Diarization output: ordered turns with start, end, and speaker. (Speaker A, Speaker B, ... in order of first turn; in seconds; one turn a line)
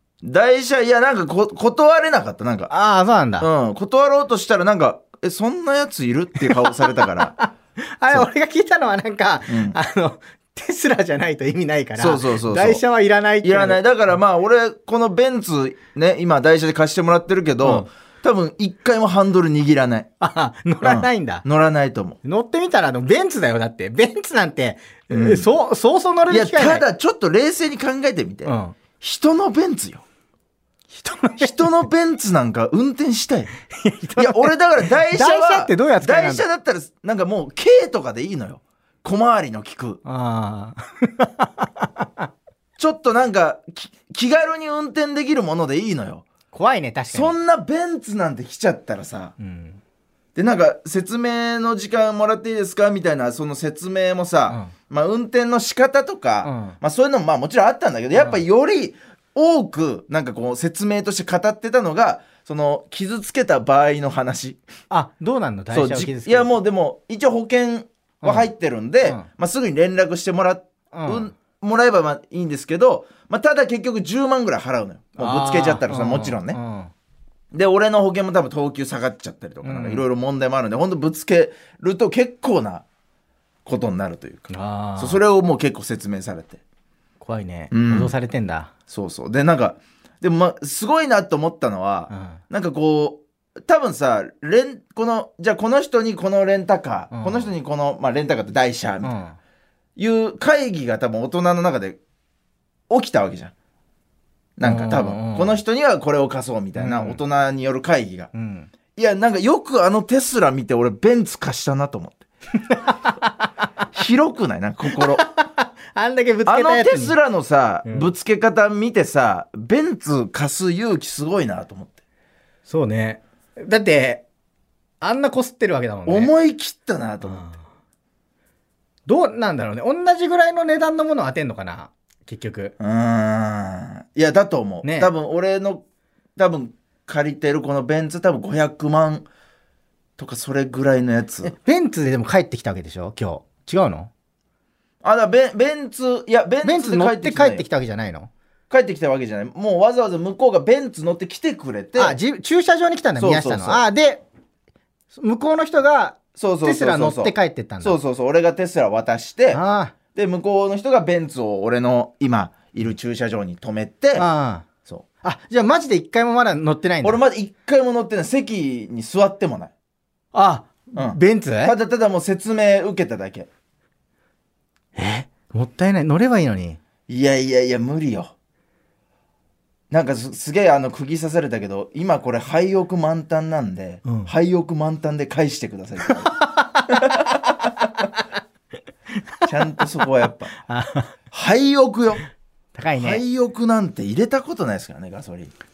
Speaker A: 0.2-2.7
Speaker B: 2.7-3.5
Speaker A: 3.4-7.3
Speaker B: 7.0-13.8
Speaker A: 9.5-9.8
Speaker A: 12.0-12.8
Speaker A: 13.4-20.1
Speaker B: 17.6-17.9
Speaker B: 20.2-21.4
Speaker A: 20.8-22.2
Speaker B: 22.2-26.9
Speaker A: 25.1-25.5
Speaker A: 26.3-30.0
Speaker B: 28.4-28.8
Speaker B: 30.9-31.7
Speaker A: 31.4-33.5
Speaker B: 33.7-36.4
Speaker A: 34.2-40.0
Speaker B: 40.0-42.1
Speaker A: 42.8-46.2
Speaker B: 46.5-47.4
Speaker A: 47.1-49.3
Speaker B: 49.4-49.8
Speaker A: 50.4-64.6
Speaker B: 56.4-56.8
Speaker B: 58.1-58.4
Speaker B: 64.9-66.6
Speaker A: 65.7-76.6
Speaker B: 68.2-68.5
Speaker B: 70.9-71.3
Speaker B: 75.2-76.9
Speaker A: 77.5-82.8
Speaker B: 79.6-80.0
Speaker A: 83.7-86.6
Speaker B: 84.5-85.2
Speaker B: 87.2-88.7
Speaker A: 87.7-88.1
Speaker A: 88.9-99.1
Speaker B: 92.1-92.4
Speaker B: 97.1-97.5
Speaker B: 99.0-99.4
Speaker A: 100.0-102.0
Speaker A: 102.9-103.5
Speaker A: 104.6-108.3
Speaker B: 104.6-105.6
Speaker B: 106.8-107.2
Speaker B: 108.3-108.7
Speaker A: 109.0-112.2
Speaker B: 112.7-113.3
Speaker A: 113.9-115.3
Speaker B: 114.9-117.2
Speaker A: 116.5-122.0
Speaker B: 117.8-118.1
Speaker B: 122.7-124.2
Speaker B: 125.0-126.3
Speaker A: 126.1-127.4
Speaker B: 127.2-127.6
Speaker B: 129.1-132.8
Speaker A: 132.8-135.8
Speaker B: 134.8-135.1
Speaker A: 136.4-139.3
Speaker A: 140.2-141.5
Speaker B: 141.4-144.1
Speaker A: 145.0-147.7
Speaker B: 146.6-148.3
Speaker A: 148.7-152.2
Speaker B: 151.9-154.2
Speaker A: 153.2-153.8
Speaker B: 155.1-158.0
Speaker A: 156.4-159.6
Speaker B: 159.5-159.9
Speaker A: 160.2-164.3
Speaker B: 164.2-164.7
Speaker B: 165.2-167.2
Speaker A: 167.0-169.7
Speaker B: 170.3-171.7
Speaker A: 171.0-173.5
Speaker B: 175.0-176.8
Speaker A: 177.1-178.3
Speaker A: 179.9-186.4
Speaker B: 184.1-184.3
Speaker B: 186.2-187.0
Speaker A: 189.5-190.6
Speaker B: 190.7-191.1
Speaker A: 191.3-192.2
Speaker B: 192.8-193.2
Speaker A: 193.0-195.5